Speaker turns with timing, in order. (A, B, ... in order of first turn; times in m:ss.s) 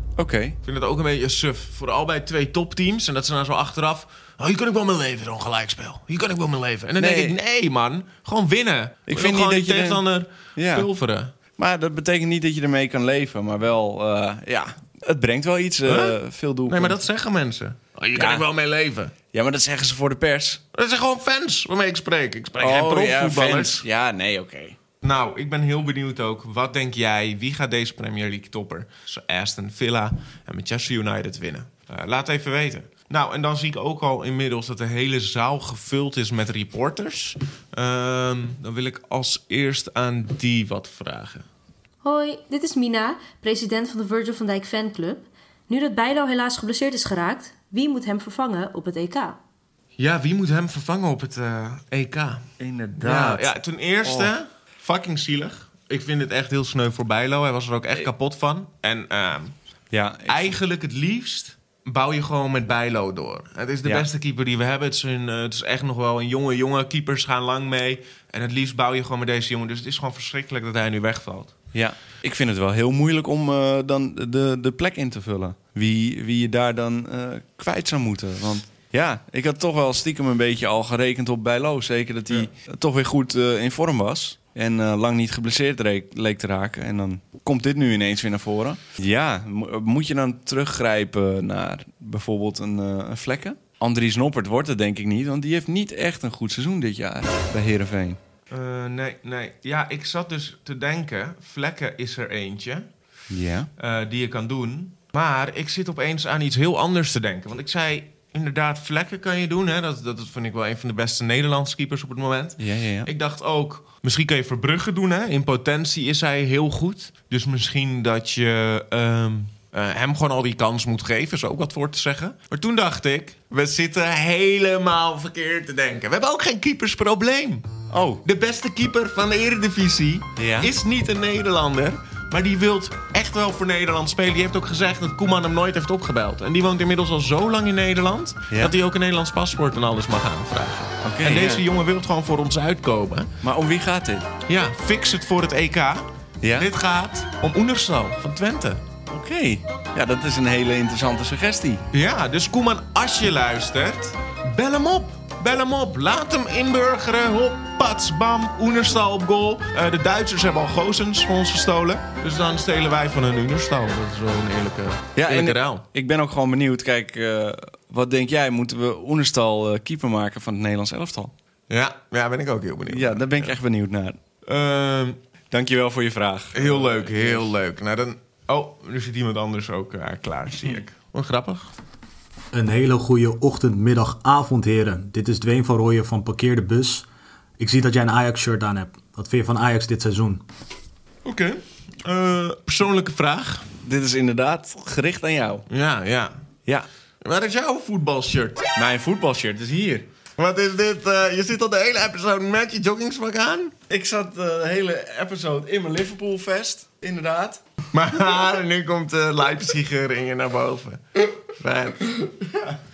0:00.2-0:00.6 A
0:00.6-0:11.3 B
0:07.0-0:07.4 A
0:09.1-0:10.0 A
0:10.5-0:10.9 A
0:11.6-0:16.9 A
0:15.8-0:19.1 B
0:18.2-0:18.4 A
0:19.3-0:20.6 A
0:20.7-0:23.8 B
0:22.6-0:24.8 A
0:25.0-0:41.4 B
0:42.0-0:49.4 C
0:50.0-0:52.4 B
0:52.6-0:53.5 A
0:53.0-0:59.5 B
0:54.0-0:54.3 A
0:59.9-1:00.5 A
1:00.3-1:11.5 B
1:11.7-1:38.2 A
1:38.5-1:42.8 B
1:43.3-1:43.7 A
1:43.8-2:07.6 B
1:52.6-1:53.1 A
2:07.9-2:08.2 A
2:08.2-2:23.3 B
2:10.4-2:10.7 A
2:21.0-2:21.6 A
2:23.4-2:24.3 A
2:24.5-2:28.8 B
2:26.4-2:26.7 A
2:29.1-2:31.8 A
2:31.9-2:45.8 B
2:45.1-2:51.3 A
2:51.7-2:53.6 B
2:52.9-2:54.2 A
2:54.5-2:55.2 B
2:55.5-2:57.5 A
2:56.5-3:01.7 B
3:02.5-3:07.1 D
3:07.6-3:10.4 D
3:11.2-3:13.6 B
3:13.8-3:15.6 A
3:15.7-3:16.3 B
3:17.2-3:18.7 B
3:18.8-3:20.0 A
3:20.4-3:23.7 B
3:23.9-3:27.6 A
3:27.9-3:32.6 B